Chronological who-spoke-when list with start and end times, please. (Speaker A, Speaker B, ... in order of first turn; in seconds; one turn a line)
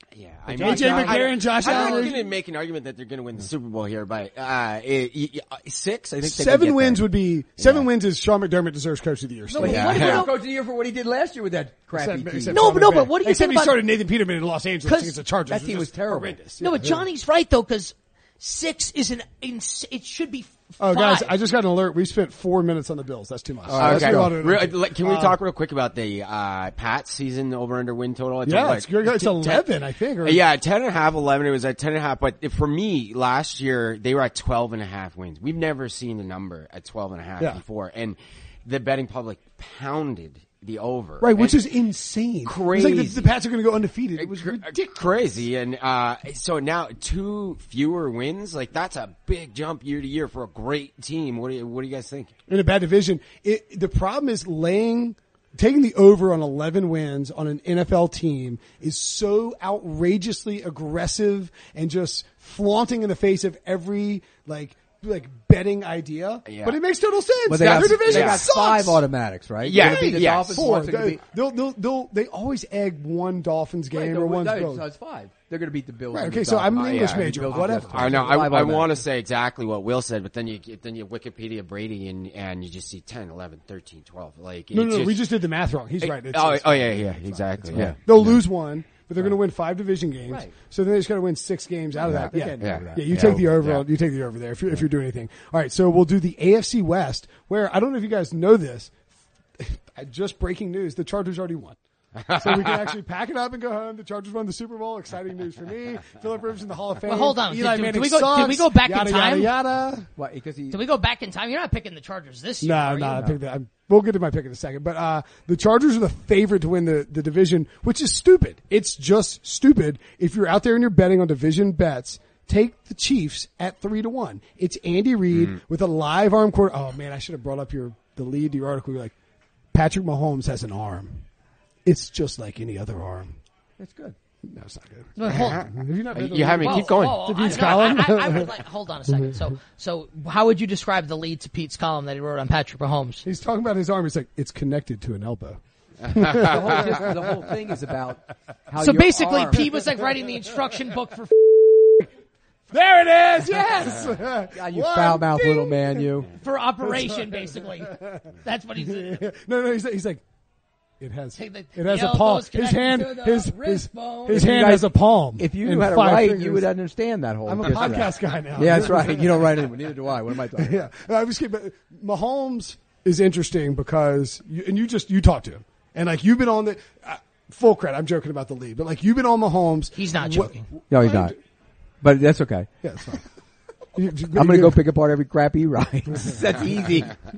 Speaker A: 0.1-7.9
Speaker B: 0.5-1.9
Speaker C: 0.5-2.3
Speaker D: 1.6-2.1
Speaker C: 6.2-10.2
Speaker B: 9.5-12.6
Speaker D: 9.6-10.4
Speaker A: 9.6-10.2
Speaker C: 11.9-17.0
Speaker D: 12.5-13.8
Speaker D: 14.8-15.2
Speaker B: 15.5-16.4
Speaker D: 16.6-21.4
Speaker C: 20.8-25.4
Speaker A: 23.7-29.7
Speaker B: 23.8-24.4
Speaker C: 28.4-30.4
Speaker A: 30.2-41.6
Speaker C: 41.2-45.2
Speaker A: 42.5-43.3
Speaker A: 44.2-52.3
Speaker C: 52.5-69.0
Speaker A: 66.5-66.8
Speaker B: 67.5-71.2
Speaker A: 67.6-68.5
Speaker A: 69.6-70.7
Speaker C: 69.7-74.8
Speaker B: 73.9-79.0
Speaker C: 76.1-78.4
Speaker A: 76.7-85.2
Speaker C: 84.7-98.9
Speaker A: 86.0-88.4
Speaker B: 92.0-93.4
Speaker A: 92.2-93.8
Speaker C: 99.6-101.8
Speaker A: 102.2-102.9
Speaker C: 102.3-110.1
Speaker D: 107.0-109.5
Speaker B: 110.2-110.8
Speaker D: 110.7-113.3
Speaker C: 112.6-129.1
Speaker B: 113.1-113.4
Speaker C: 129.7-131.2
Speaker C: 131.9-133.3
Speaker B: 133.8-134.2
Speaker C: 134.4-139.4
Speaker D: 135.2-135.6
Speaker A: 135.2-137.7
Speaker D: 136.6-143.2
Speaker C: 143.2-147.9
Speaker B: 146.3-149.8
Speaker D: 148.8-151.5
Speaker C: 151.6-152.1
Speaker C: 152.7-156.3
Speaker B: 154.5-156.3
Speaker D: 156.4-159.2
Speaker C: 156.8-160.2
Speaker C: 161.0-166.7
Speaker D: 161.4-164.5
Speaker B: 164.3-170.8
Speaker C: 167.5-169.7
Speaker C: 170.3-181.4
Speaker D: 179.9-180.7
Speaker B: 180.9-181.4
Speaker B: 182.0-182.7
Speaker C: 182.8-183.2
Speaker C: 183.9-184.8
Speaker B: 184.4-187.2
Speaker C: 186.1-186.4